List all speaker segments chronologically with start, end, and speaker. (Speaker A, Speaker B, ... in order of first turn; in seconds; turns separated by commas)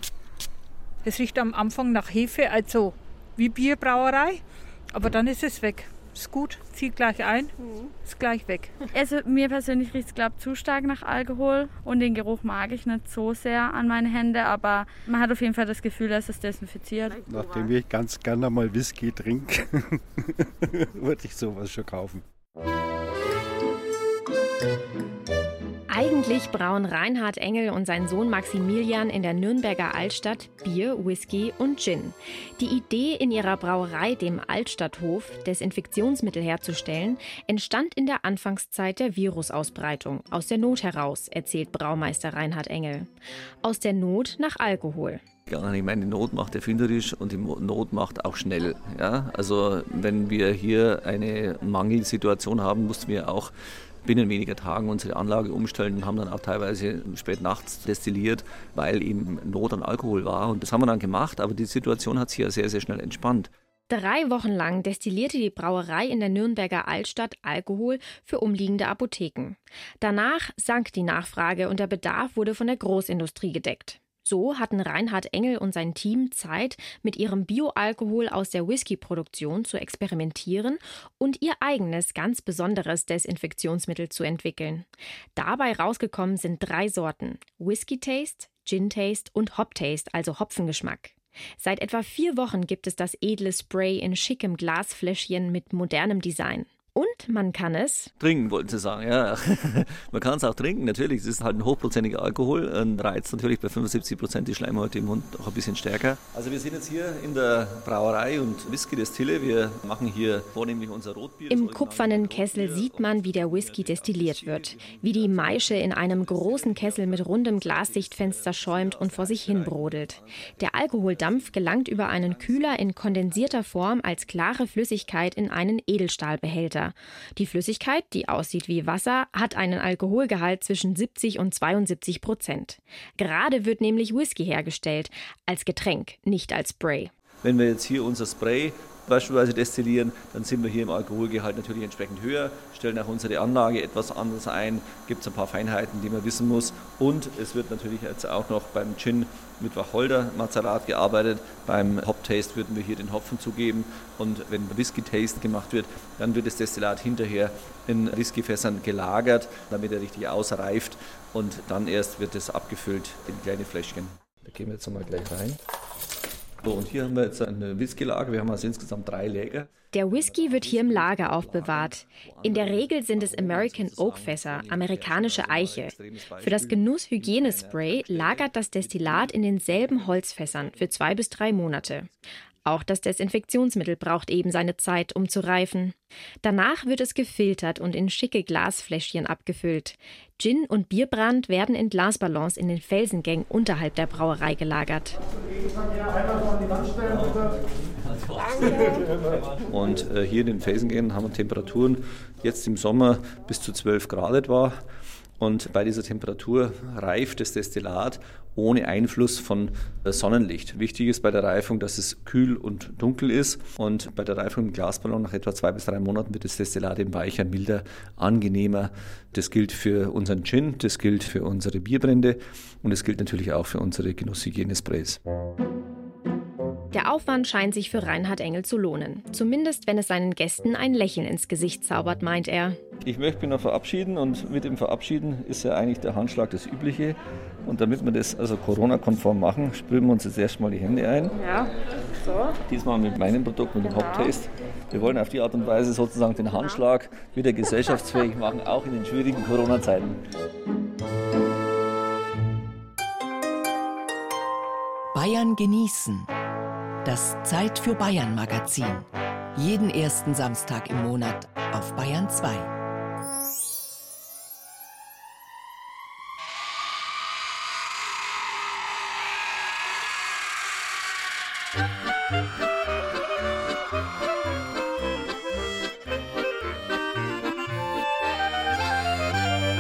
Speaker A: 1.0-8.8, Speaker B: 8.9-17.2, Speaker C: 17.2-20.0, Speaker C: 20.6-22.2, Speaker D: 25.9-43.1, Speaker D: 43.6-45.2, Speaker E: 45.5-63.5, Speaker D: 63.9-98.1, Speaker E: 98.2-123.8, Speaker D: 111.5-137.1, Speaker E: 137.4-165.6, Speaker E: 166.6-182.1, Speaker D: 169.9-182.1, Speaker D: 182.6-195.2, Speaker E: 196.7-204.8, Speaker E: 205.4-225.2, Speaker D: 226.9-232.8, Speaker E: 233.0-241.5, Speaker E: 242.6-250.2, Speaker F: 255.1-256.3, Speaker F: 257.0-262.7